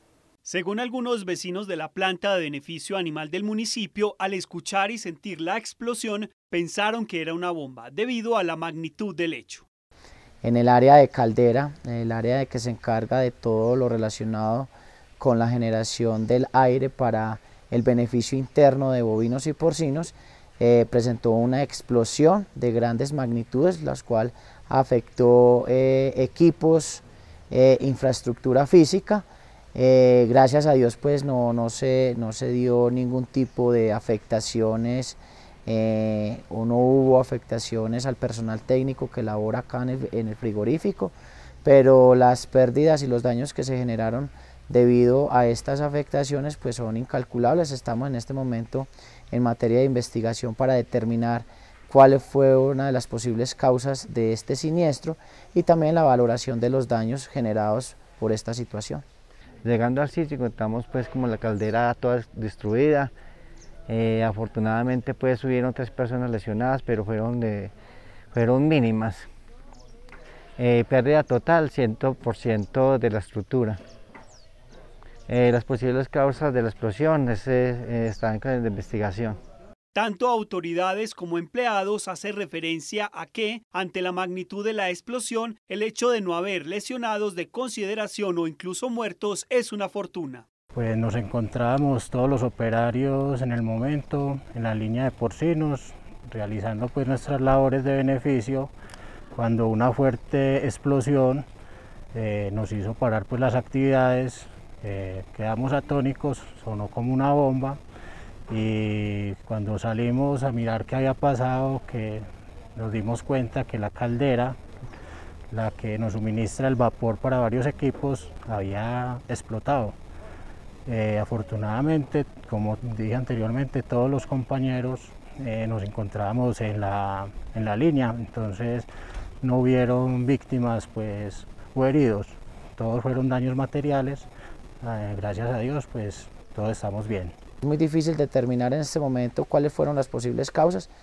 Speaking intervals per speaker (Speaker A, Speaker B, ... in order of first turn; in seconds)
Speaker A: 0.4-9.7, 79.9-90.5
Speaker B: 10.4-59.0, 137.6-140.9
Speaker C: 59.6-63.1, 63.9-67.7, 68.3-69.3, 70.6-73.8, 75.3-79.4
Speaker D: 90.7-98.7, 99.3-101.5, 102.1-107.8, 108.5-114.6, 115.5-120.0, 120.8-128.9, 129.4-134.3, 134.8-137.3